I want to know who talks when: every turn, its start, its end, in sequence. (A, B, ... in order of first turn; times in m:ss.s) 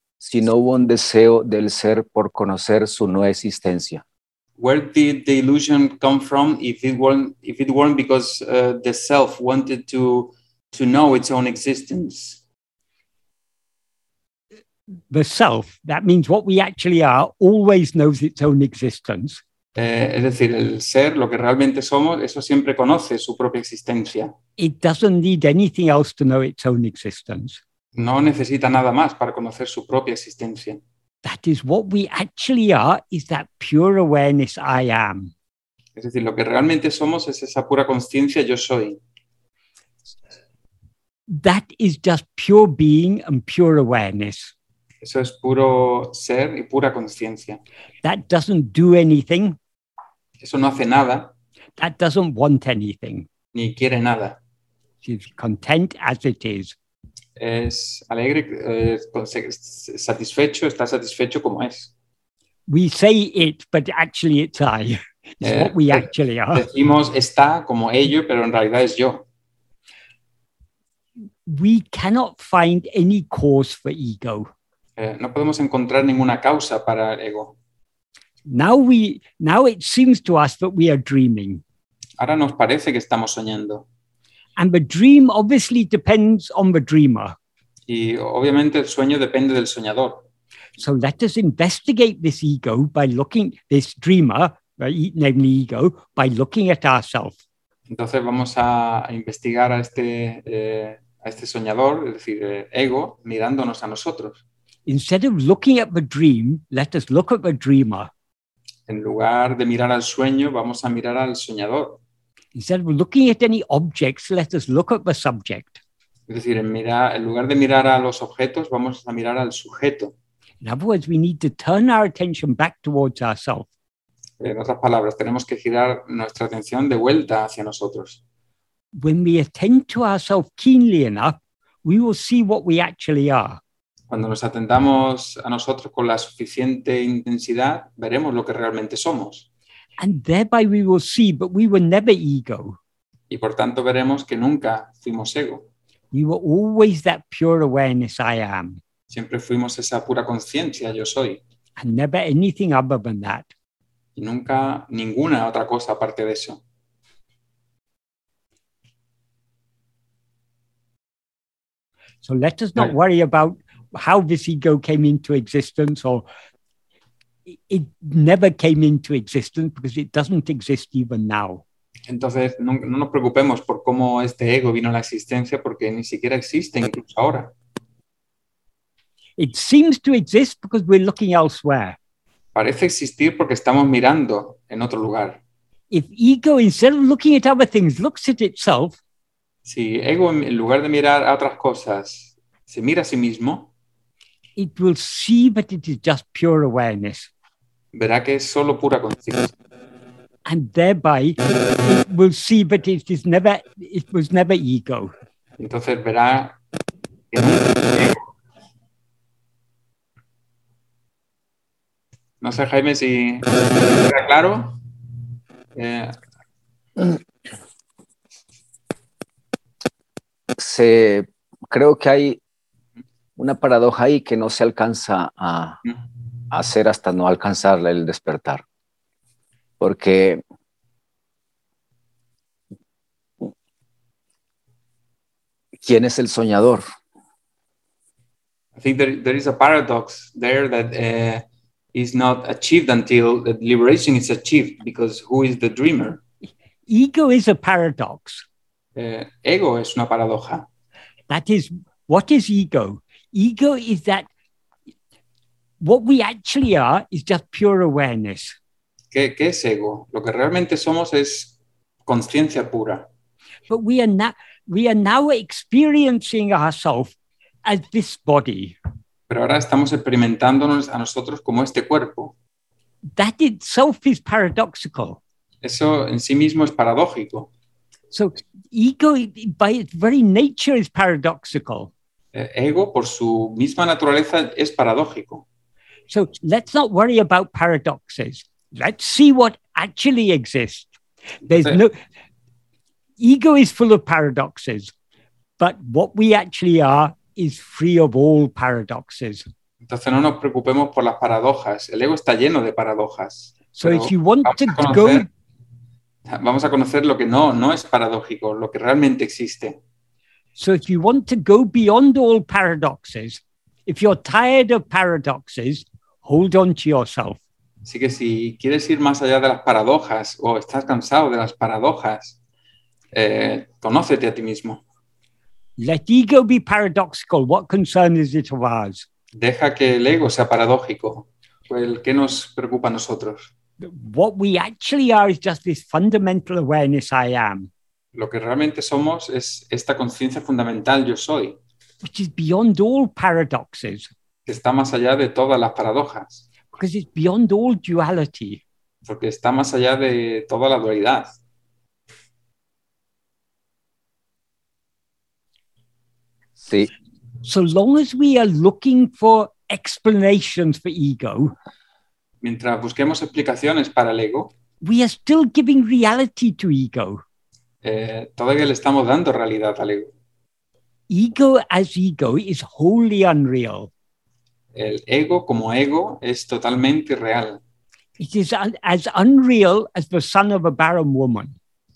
0:00.2-0:04.0 A
0:04.6-0:12.4 B
0:15.1-0:19.4 C
0:19.8-0:24.3 B
0:24.6-0:27.6 C
0:28.0-0:30.8 B
0:31.2-0:35.3 C
0:36.0-0:39.0 B
0:41.3-0:44.5 C
0:45.0-0:47.6 B
0:48.0-0:49.6 C
0:50.4-0:51.3 B
0:51.8-0:53.3 C
0:53.6-0:54.4 B
0:55.0-0:56.8 C
0:57.4-1:01.9 B
1:02.7-1:06.7 C
1:05.4-1:09.2 B
1:11.5-1:14.5 C
1:15.0-1:17.6 B
1:18.5-1:21.6 C
1:22.2-1:23.9 B
1:24.6-1:27.4 C
1:27.9-1:30.3 B
1:30.8-1:37.4 C
1:37.9-1:44.4 B
1:44.9-1:48.1 C
1:48.9-1:52.0 B
1:52.6-1:55.8 C
1:56.3-2:00.1 B
2:00.6-2:03.7 C
2:04.4-2:08.2 B
2:09.0-2:13.6 C
2:14.1-2:19.5 B
2:20.0-2:22.8 C
2:23.3-2:25.7 B
2:26.1-2:28.8 C
2:29.1-2:31.4 B
2:31.8-2:33.5 C
2:34.2-2:36.6 B
2:42.2-2:46.3 C
2:47.5-2:51.6 C
2:52.1-2:57.5 B
2:59.4-3:02.0 C
3:02.6-3:05.4 B
3:05.9-3:09.0 C
3:09.6-3:13.7 B
3:14.6-3:17.3 C
3:17.9-3:19.5 B
3:20.5-3:25.1 C
3:25.6-3:26.6 B
3:27.3-3:28.2 B
3:32.4-3:34.8 B
3:35.8-3:36.2 B
3:40.6-3:42.4 A
3:43.4-3:45.8 A
3:46.5-3:48.6 A
3:49.8-3:50.4 A
3:55.8-3:56.8 A
3:58.8-4:06.2 B
4:06.9-4:08.4 C
4:09.0-4:10.7 B
4:11.3-4:14.3 C
4:15.8-4:18.6 C
4:19.1-4:23.1 B
4:23.7-4:27.1 C
4:27.6-4:28.8 C
4:29.3-4:32.4 B
4:33.1-4:35.2 C
4:35.6-4:37.5 B
4:38.1-4:41.9 C
4:42.3-4:45.4 B
4:46.1-4:51.0 C
4:51.5-4:52.0 C
4:51.5-4:51.8 B
4:53.2-4:54.9 C
4:55.6-4:59.4 C
4:59.8-5:05.3 B
5:03.8-5:05.3 C
5:06.3-5:09.8 B
5:10.6-5:17.4 C
5:17.8-5:22.4 B
5:23.1-5:24.8 B
5:25.8-5:29.1 C
5:29.3-5:33.5 B
5:33.8-5:37.7 C
5:38.2-5:41.6 B
5:42.0-5:44.1 C
5:44.5-5:46.4 B
5:46.7-5:48.6 C
5:49.0-5:51.4 B
5:56.6-5:56.9 A
5:57.4-6:01.5 C
6:02.4-6:04.5 B
6:04.8-6:07.2 C
6:07.8-6:10.1 B
6:11.1-6:13.9 C
6:14.7-6:17.6 B
6:18.2-6:21.6 C